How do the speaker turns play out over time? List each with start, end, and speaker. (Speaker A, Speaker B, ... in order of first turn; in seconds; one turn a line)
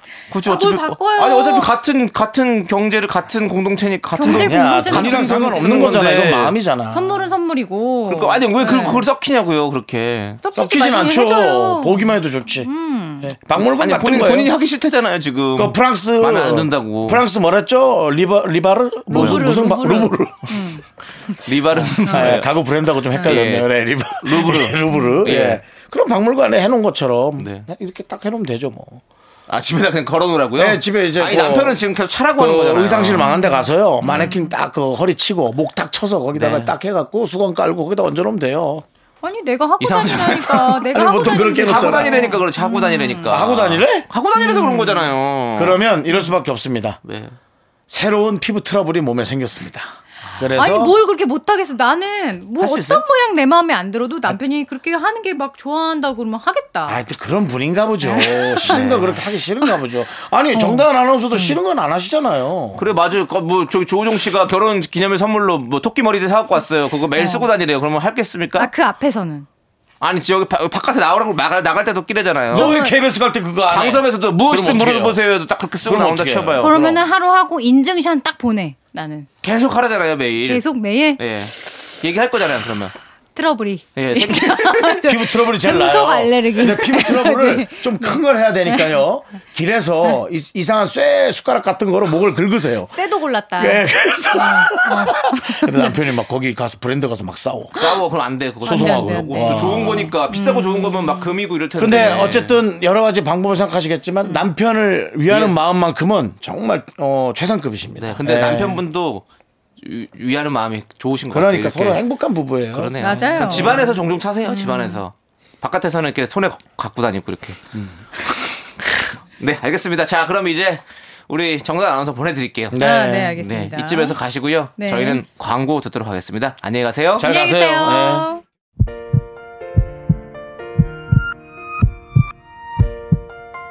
Speaker A: 0.3-6.6
Speaker B: 0.4-1.7
Speaker B: 4.2-6.0
Speaker C: 4.2-7.3
Speaker B: 6.9-9.1
Speaker A: 8.1-10.4
Speaker B: 10.4-13.3
Speaker C: 10.5-12.7
Speaker C: 13.2-14.5
Speaker A: 13.6-17.2
Speaker C: 15.5-20.7
Speaker B: 19.1-21.4
Speaker A: 19.1-19.4
Speaker A: 21.3-22.5
Speaker C: 21.7-29.0
Speaker B: 22.1-22.4
Speaker B: 23.1-23.4
Speaker A: 23.2-25.6
Speaker B: 24.9-25.2
Speaker A: 27.4-27.7
Speaker A: 29.5-33.3
Speaker C: 30.6-31.8
Speaker C: 32.3-38.8
Speaker B: 33.1-34.5
Speaker A: 34.1-34.3
Speaker A: 36.3-36.7
Speaker B: 39.2-43.4
Speaker A: 39.8-40.8
Speaker C: 40.9-42.3
Speaker A: 41.6-45.8
Speaker C: 43.3-44.0
Speaker B: 44.4-45.1
Speaker C: 45.5-47.0
Speaker A: 47.0-47.4
Speaker C: 47.9-50.9
Speaker A: 50.2-50.5
Speaker B: 50.6-57.0
Speaker A: 52.6-53.0
Speaker C: 56.9-62.8
Speaker B: 58.0-58.8
Speaker A: 58.6-59.2
Speaker B: 60.5-61.6
Speaker A: 62.7-68.7
Speaker B: 67.1-67.5
Speaker B: 68.6-69.5
Speaker A: 70.0-72.7
Speaker C: 72.5-75.2
Speaker B: 72.5-73.0
Speaker A: 73.7-76.9
Speaker C: 75.8-77.0
Speaker B: 76.6-79.3
Speaker A: 79.4-80.6
Speaker B: 80.4-81.2
Speaker A: 81.2-82.9
Speaker B: 83.3-89.0
Speaker A: 84.0-85.0
Speaker C: 85.0-92.9
Speaker B: 92.9-96.0
Speaker C: 93.6-97.7
Speaker A: 97.7-102.6
Speaker B: 98.6-101.3
Speaker C: 98.6-100.1
Speaker C: 101.8-108.8
Speaker A: 105.3-105.5
Speaker A: 108.0-109.2
Speaker A: 109.8-112.0
Speaker C: 111.3-113.8
Speaker A: 112.7-117.6
Speaker B: 113.0-113.9
Speaker B: 114.4-115.0
Speaker C: 117.7-118.0
Speaker A: 119.4-122.8
Speaker C: 122.7-123.4
Speaker B: 122.8-124.2
Speaker A: 123.4-127.3
Speaker B: 124.8-125.2
Speaker C: 127.2-128.2
Speaker B: 127.2-128.4